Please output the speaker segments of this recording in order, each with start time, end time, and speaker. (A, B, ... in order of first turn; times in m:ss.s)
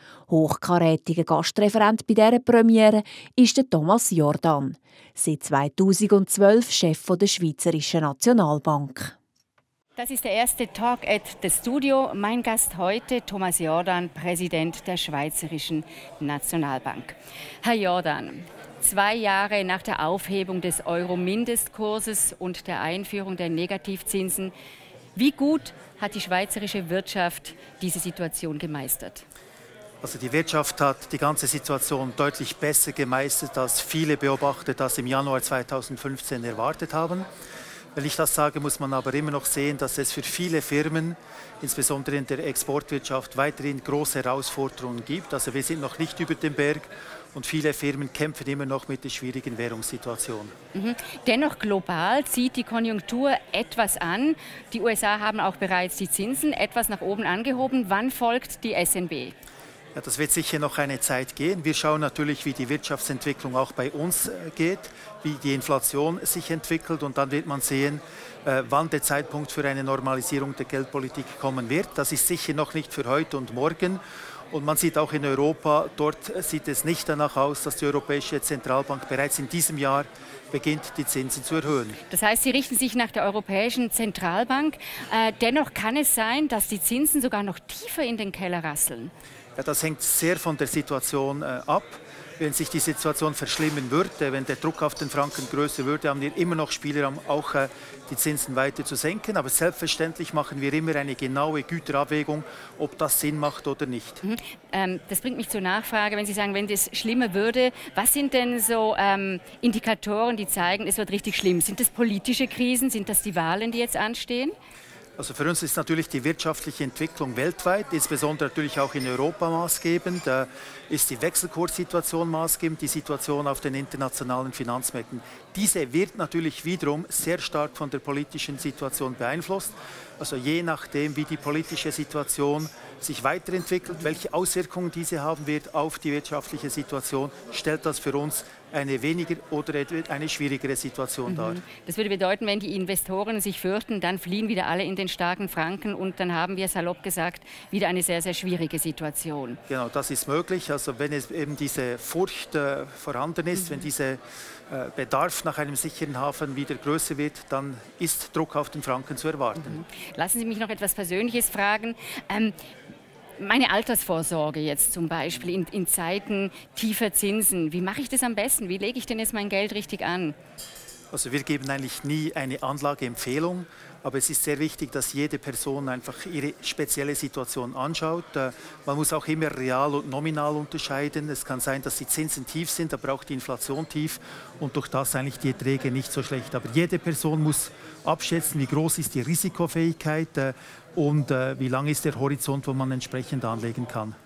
0:00.3-0:09.2 A
0:10.0-0:24.5 B
0:25.2-0:29.2 B
0:30.0-0:37.3 C
0:38.0-0:50.5 C
0:50.7-0:59.3 B
1:00.0-1:22.0 C
1:22.1-1:29.1 B
1:29.6-1:44.2 C
1:44.2-1:54.5 B
1:55.2-2:21.6 C
2:21.3-2:29.6 B
2:29.7-2:39.8 C
2:39.6-2:42.5 B
2:43.4-2:50.4 B
2:51.1-3:14.2 C